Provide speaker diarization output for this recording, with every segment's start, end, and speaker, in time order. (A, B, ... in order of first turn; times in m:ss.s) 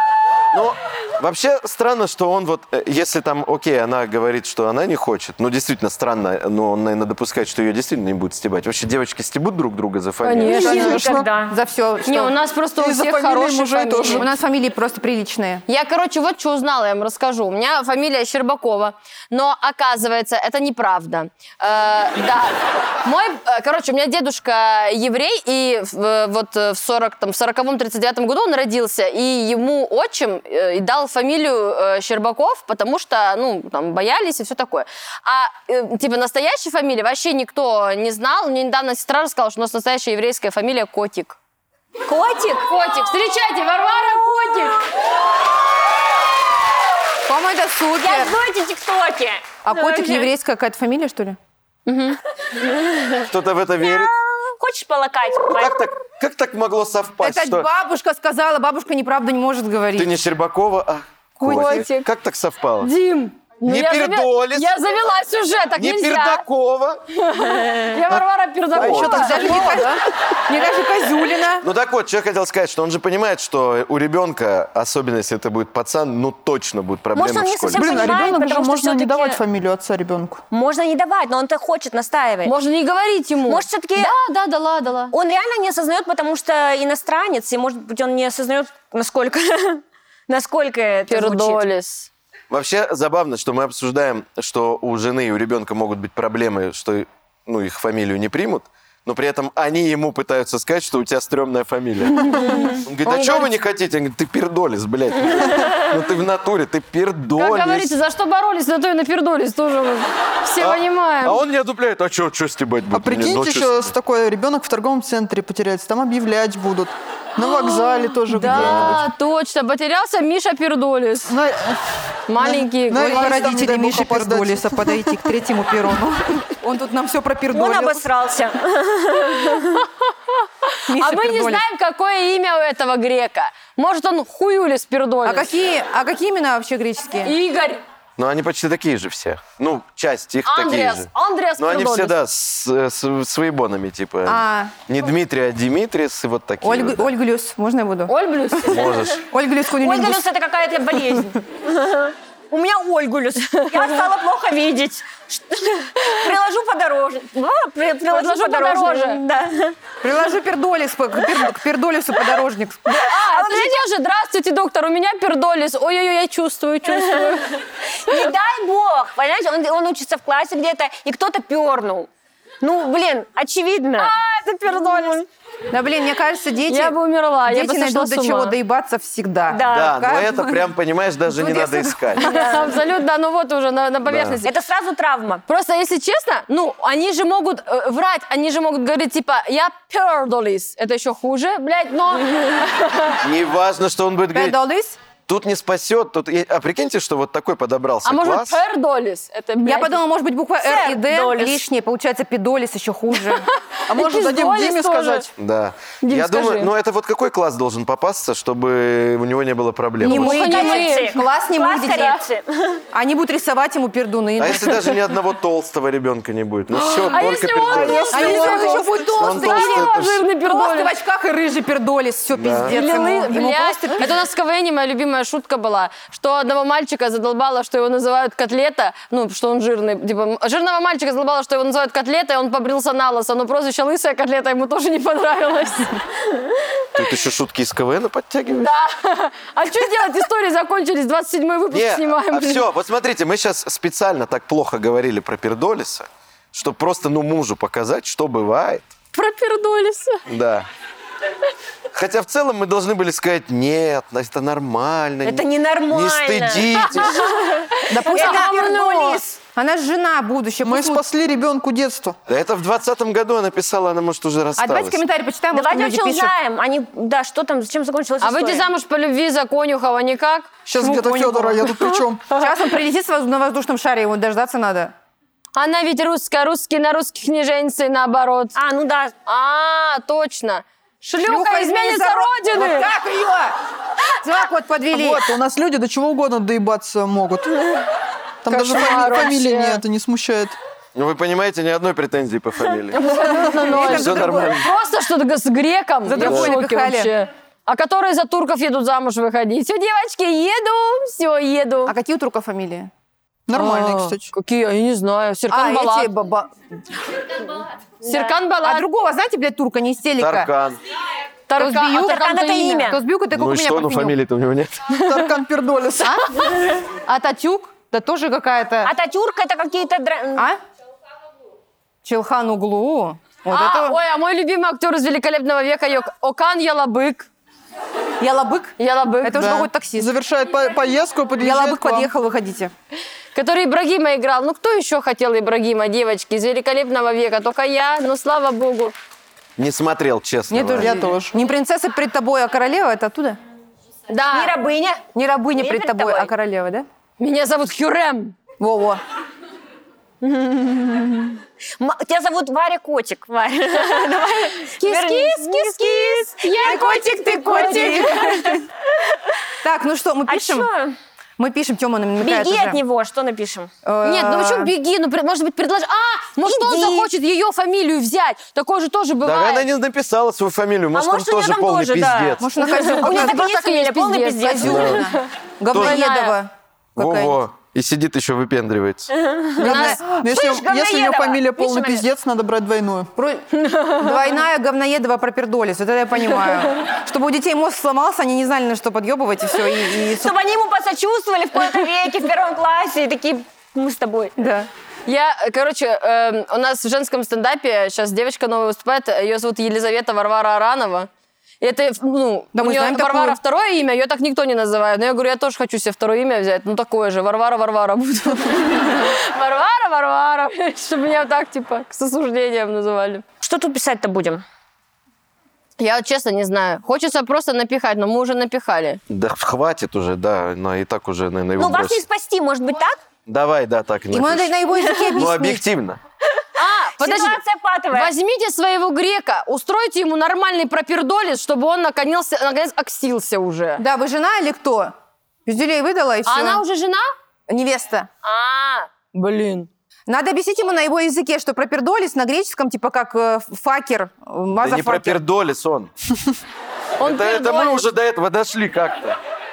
0:00.5-0:10.7 A
0:10.2-0:11.1 B
0:10.5-0:11.3 C
0:10.6-0:11.5 D
0:11.4-0:12.4 E
0:12.0-0:14.3 B
0:12.8-0:14.3 C
0:14.2-0:15.6 E
0:15.7-0:41.4 B
0:42.0-0:42.7 D
0:42.6-0:44.8 B
0:47.3-0:48.3 E
0:48.0-0:50.3 D
0:49.6-0:51.4 E
0:51.8-0:52.2 B
0:52.7-0:53.2 D
0:53.3-0:54.1 A
0:53.8-0:55.8 D
0:55.4-0:57.7 A
0:57.2-1:00.1 E
1:00.0-1:02.9 A
1:01.4-1:01.8 C
1:01.4-1:02.1 B
1:02.8-1:06.4 B
1:03.6-1:04.7 A
1:05.8-1:07.0 A
1:07.1-1:09.9 B
1:08.8-1:09.9 C
1:08.8-1:09.2 A
1:08.8-1:11.6 E
1:11.6-1:18.1 A
1:17.1-1:19.4 D
1:17.7-1:20.4 C
1:20.5-1:22.5 D
1:22.4-1:25.1 B
1:23.5-1:24.1 D
1:25.1-1:31.6 D
1:31.1-1:32.1 B
1:32.5-1:47.9 A
1:42.1-1:43.5 B
1:47.3-1:51.4 B
1:50.6-1:53.9 A
1:52.9-1:59.0 C
1:57.4-2:01.4 B
2:01.3-2:01.8 C
2:02.3-2:03.3 B
2:02.4-2:05.1 C
2:02.9-2:08.0 E
2:07.5-2:09.8 D
2:09.6-2:10.1 B
2:10.7-2:15.5 B
2:10.9-2:11.6 E
2:15.2-2:17.3 E
2:17.2-2:17.8 B
2:18.2-2:27.1 A
2:20.4-2:22.1 B
2:24.2-2:24.7 E
2:26.6-2:28.1 E
2:28.1-2:28.9 B
2:28.6-2:29.3 A
2:29.3-2:30.2 E
2:29.8-2:39.8 D
2:33.6-2:33.9 B
2:38.1-2:39.2 B
2:40.0-2:42.8 E
2:42.9-2:47.6 B
2:43.0-2:43.8 D
2:46.9-2:52.1 D
2:52.6-2:55.2 D
2:54.0-2:55.2 B
2:55.7-3:00.6 E
2:56.7-2:58.6 B
2:59.5-3:00.0 D
2:59.7-3:02.3 A
3:01.4-3:02.0 E
3:02.2-3:04.5 B
3:02.2-3:02.7 D
3:04.0-3:04.4 A
3:04.4-3:05.4 D
3:05.5-3:13.2 B
3:13.2-3:14.6 A
3:14.3-3:15.0 E
3:15.3-3:18.6 A
3:18.0-3:20.0 B
3:19.6-3:23.4 E
3:20.6-3:21.7 D
3:23.9-3:25.3 C
3:23.9-3:25.3 B
3:25.4-3:30.4 A
3:26.0-3:26.7 B
3:30.0-3:32.2 E
3:30.0-3:31.2 B
3:30.3-3:32.8 D
3:32.9-3:35.0 E
3:34.4-3:38.3 A
3:37.0-3:40.9 B
3:37.7-3:39.0 C
3:38.1-3:44.1 E
3:39.1-3:40.2 A
3:42.3-3:42.8 A
3:42.7-3:56.0 B
3:56.9-3:58.7 A
3:58.6-4:02.6 B
4:01.7-4:08.9 A
4:09.1-4:10.2 B
4:10.2-4:10.7 A
4:11.9-4:17.2 A
4:15.2-4:18.6 D
4:17.2-4:19.2 B
4:17.9-4:21.0 E
4:20.6-4:22.2 C
4:22.3-4:25.0 A
4:24.6-4:26.3 E
4:25.5-4:28.7 D
4:28.2-4:31.7 B
4:30.6-4:32.3 C
4:30.8-4:31.3 E
4:32.3-4:34.9 E
4:35.5-4:38.5 B
4:38.5-4:39.1 D
4:39.2-4:42.9 B
4:41.2-4:43.6 E
4:44.2-4:45.2 E
4:44.9-4:47.6 C
4:48.4-4:50.6 C
4:48.5-4:49.8 B
4:50.9-4:53.0 A
4:52.9-5:01.9 B
4:53.0-4:54.6 E
4:53.2-4:53.9 C
4:53.7-4:54.7 A
4:56.0-4:57.1 E
4:56.2-4:56.5 A
5:01.8-5:02.9 E
5:03.5-5:04.3 C
5:03.5-5:06.1 B
5:05.5-5:06.5 E
5:08.0-5:08.8 B
5:08.6-5:10.5 E
5:10.2-5:10.8 A
5:11.5-5:12.9 B
5:11.6-5:12.3 E
5:11.9-5:13.0 D
5:12.8-5:14.1 E
5:13.3-5:14.9 A
5:14.9-5:16.2 C
5:15.0-5:15.3 B
5:16.0-5:16.3 E
5:17.0-5:18.9 E
5:18.8-5:20.5 D
5:22.0-5:24.0 E
5:23.5-5:27.3 B
5:28.2-5:30.1 E
5:28.8-5:29.6 B
5:29.3-5:32.1 C
5:31.4-5:32.7 E
5:33.3-5:38.9 B
5:39.6-5:41.1 A
5:40.5-5:43.4 E
5:40.8-5:41.3 C
5:44.1-5:44.6 B
5:44.3-5:46.3 D
5:45.1-5:46.8 E
5:47.2-5:48.4 B
5:48.6-5:49.0 E
5:50.2-5:56.8 D
5:54.7-5:58.6 B
5:56.5-5:58.6 E
5:57.4-5:59.3 D
5:59.6-6:00.7 E
6:00.3-6:00.9 D
6:01.4-6:02.8 E
6:02.2-6:03.7 D
6:03.8-6:04.7 E
6:04.0-6:09.6 B
6:06.4-6:07.1 D
6:09.2-6:12.5 A
6:10.9-6:15.0 D
6:12.4-6:13.4 E
6:12.7-6:16.4 B
6:14.4-6:17.4 E
6:14.6-6:15.0 A
6:15.7-6:16.0 A
6:17.0-6:19.1 A
6:19.1-6:19.6 D
6:19.6-6:23.1 C
6:19.6-6:20.0 B
6:19.7-6:20.0 E
6:20.1-6:22.0 D
6:23.2-6:30.3 E
6:23.6-6:24.1 B
6:30.0-6:34.3 D
6:34.4-6:34.7 E
6:35.0-6:41.1 B
6:41.6-6:53.2 B
6:42.5-6:43.4 E
6:53.4-6:54.4 D
6:55.8-6:59.0 B
6:59.1-7:02.0 A
7:01.6-7:03.0 D
7:03.3-7:04.5 A
7:04.1-7:05.6 E
7:04.8-7:05.1 D
7:05.1-7:06.0 A
7:06.6-7:07.4 B
7:06.9-7:08.1 D
7:07.9-7:13.8 B
7:13.8-7:14.9 E
7:15.4-7:16.6 E
7:16.2-7:17.1 B
7:17.5-7:18.1 E
7:18.2-7:19.7 B
7:20.1-7:25.2 E
7:24.5-7:25.9 A
7:27.0-7:27.8 B
7:27.0-7:29.2 A